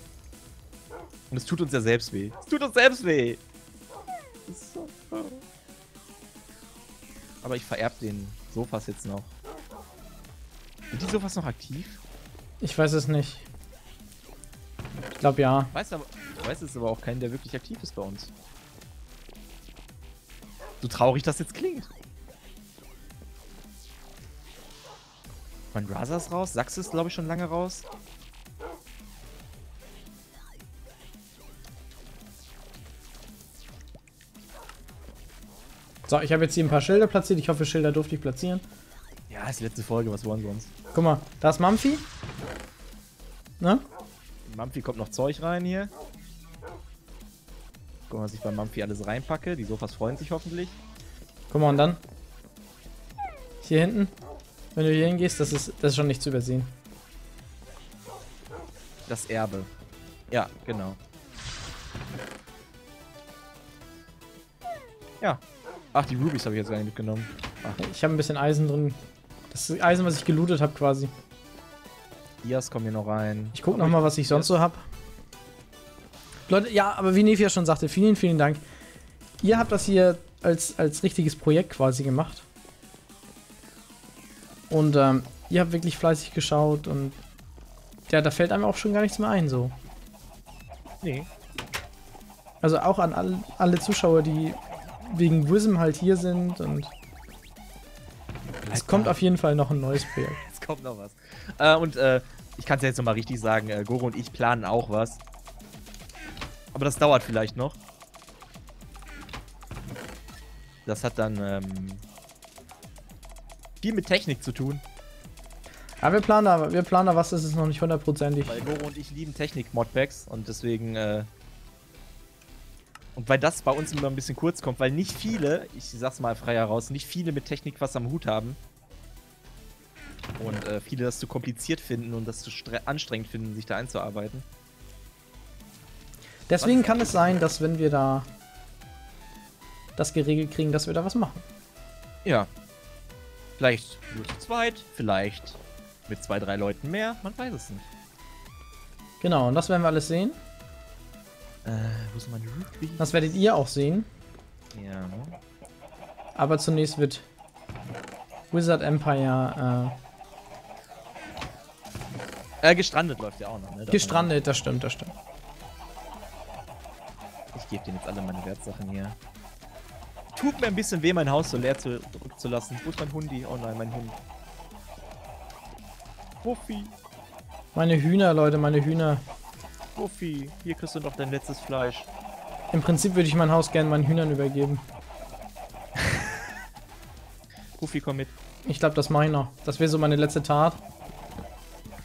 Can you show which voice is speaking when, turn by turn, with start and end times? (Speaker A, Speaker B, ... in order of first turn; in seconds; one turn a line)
Speaker A: 1.3-3.4
Speaker A: 4.5-5.4
Speaker A: 7.4-9.3
Speaker A: 10.9-12.0
Speaker B: 12.6-13.5
Speaker B: 15.2-15.7
Speaker A: 15.7-18.3
Speaker A: 20.8-21.9
Speaker A: 25.7-27.9
Speaker B: 36.1-38.6
Speaker A: 39.3-40.7
Speaker B: 40.9-42.1
Speaker A: 44.5-45.9
Speaker A: 48.1-50.8
Speaker B: 51.5-52.0
Speaker B: 53.6-54.1
Speaker B: 54.8-56.7
Speaker A: 59.1-59.7
Speaker A: 60.3-61.0
Speaker A: 65.9-67.8
Speaker B: 67.8-69.0
Speaker B: 69.5-71.1
Speaker A: 72.4-74.5
Speaker B: 73.5-74.8
Speaker B: 76.5-78.6
Speaker B: 79.4-82.5
Speaker B: 84.7-87.2
Speaker B: 88.1-89.8
Speaker A: 91.0-91.3
Speaker B: 92.6-96.9
Speaker A: 98.6-99.2
Speaker B: 98.7-100.4
Speaker A: 100.0-105.2
Speaker A: 106.7-107.8
Speaker A: 110.9-112.0
Speaker A: 113.8-114.8
Speaker B: 116.0-118.6
Speaker A: 118.5-121.3
Speaker A: 123.2-128.6
Speaker A: 130.4-134.5
Speaker B: 136.5-138.3
Speaker A: 136.6-137.4
Speaker B: 140.0-141.4
Speaker A: 143.6-147.9
Speaker B: 149.2-150.4
Speaker A: 151.7-153.3
Speaker B: 153.0-154.1
Speaker A: 154.7-155.4
Speaker B: 156.4-157.3
Speaker B: 158.5-159.9
Speaker A: 162.6-164.3
Speaker B: 163.9-165.1
Speaker A: 167.5-169.2
Speaker A: 170.4-174.2
Speaker A: 176.4-176.9
Speaker B: 177.8-179.2
Speaker A: 180.0-182.1
Speaker B: 182.7-184.8
Speaker A: 187.8-188.3
Speaker B: 188.7-190.8